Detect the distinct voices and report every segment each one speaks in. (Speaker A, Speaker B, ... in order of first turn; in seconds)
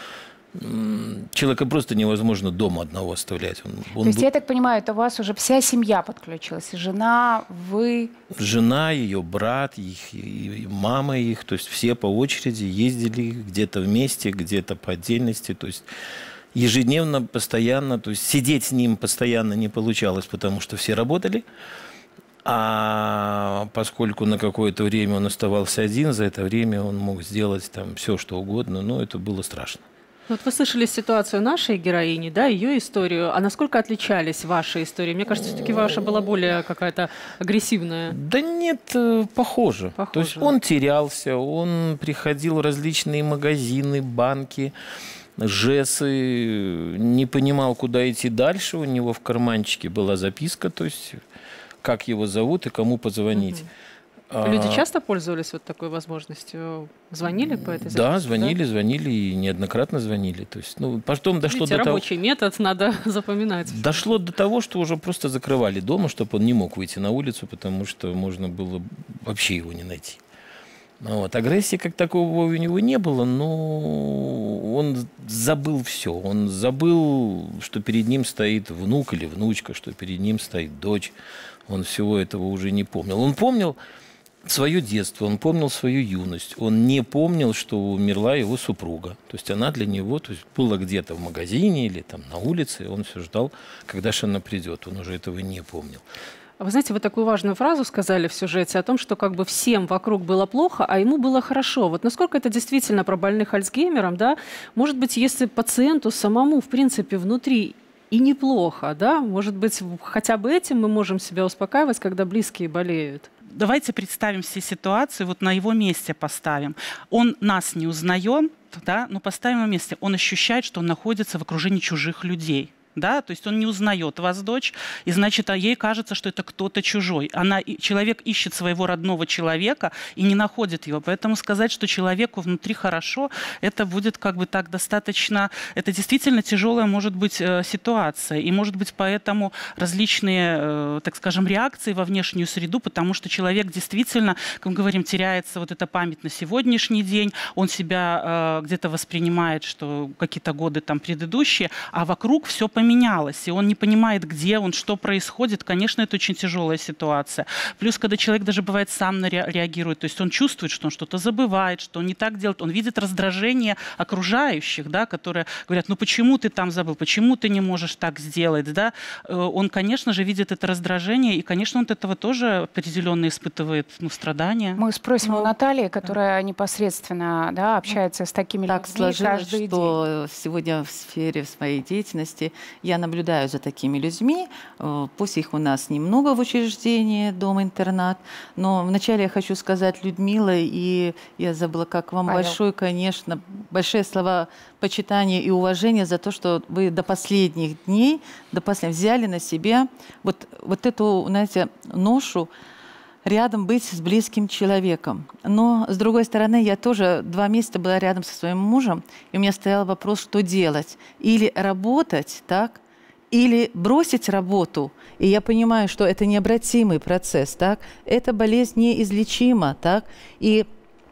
Speaker A: 0.5-4.3, 8.3-15.9, 16.5-21.5, 22.4-29.8, 35.4-36.2, 38.1-44.7, 45.4-51.2, 51.8-53.7, 54.3-54.9, 57.5-62.0, 63.7-70.2, 71.0-81.2, 81.7-83.8, 84.5-96.0
Speaker B: 4.0-8.1, 174.8-180.0, 192.3-192.6
Speaker C: 30.3-38.1, 40.0-40.6, 53.4-53.7, 54.4-58.6, 61.5-64.0, 96.6-113.3
Speaker D: 113.5-174.8
Speaker E: 178.7-202.5, 203.2-212.8, 213.3-220.7